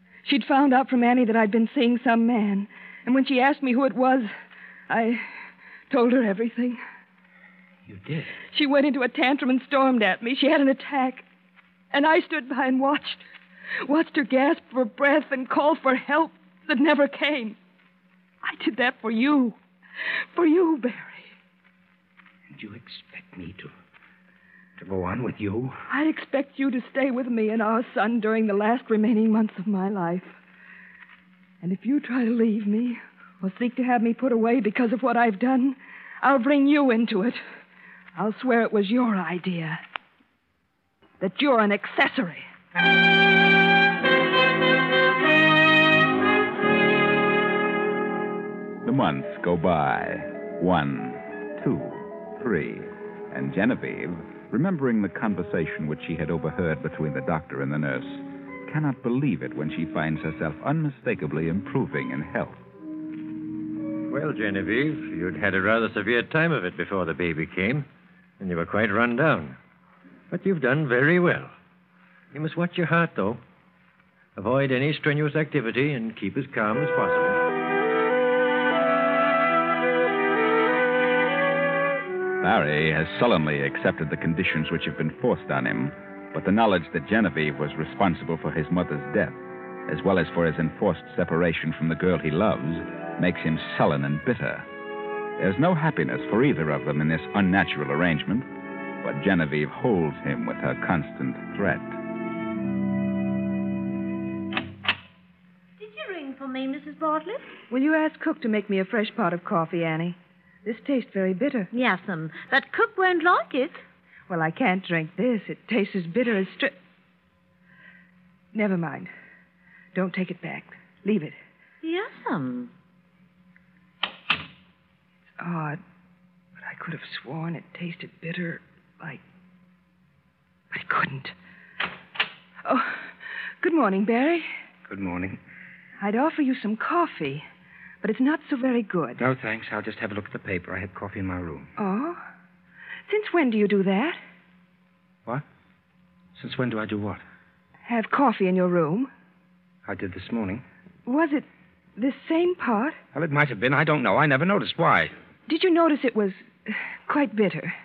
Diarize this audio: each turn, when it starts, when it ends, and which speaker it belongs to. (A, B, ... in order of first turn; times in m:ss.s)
0:00.2-0:04.3 A
0:04.9-0:05.3 A
0:05.9-0:06.8 A
0:07.9-0:08.4 B
0:08.5-0:11.2 A
0:11.9-0:13.2 A
0:13.8-0:17.6 A
0:18.4-0:19.6 A
0:20.3-0:21.3 A
0:22.5-0:23.7 B
0:24.8-0:25.8 B
0:25.9-0:30.3 A
0:31.6-0:37.4 A
0:38.2-0:39.8 A
0:41.2-0:42.4 A
0:48.8-1:02.6 C
1:04.1-1:07.8 D
1:08.4-1:09.6 D
1:10.3-1:11.5 D
1:12.3-1:13.4 D
1:14.4-1:17.4 D
1:22.4-1:29.4 C
1:29.9-1:34.6 C
1:35.4-1:38.5 C
1:39.0-1:42.0 C
1:45.8-1:47.5 E
1:47.7-1:51.7 A
1:51.7-1:53.8 E
1:54.3-1:56.8 A
1:58.5-1:59.1 A
1:59.9-2:01.4 A
2:01.8-2:02.7 E
2:05.4-2:05.8 A
2:06.6-2:09.2 A
2:10.7-2:11.3 A
2:12.6-2:14.5 A
2:14.9-2:15.4 B
2:16.0-2:17.4 A
2:18.0-2:19.2 A
2:19.2-2:21.7 B
2:21.8-2:22.2 A
2:23.1-2:24.2 A
2:26.4-2:27.2 B
2:27.8-2:29.1 A
2:29.8-2:30.6 B
2:31.0-2:33.0 A
2:33.1-2:35.1 B
2:35.5-2:37.7 A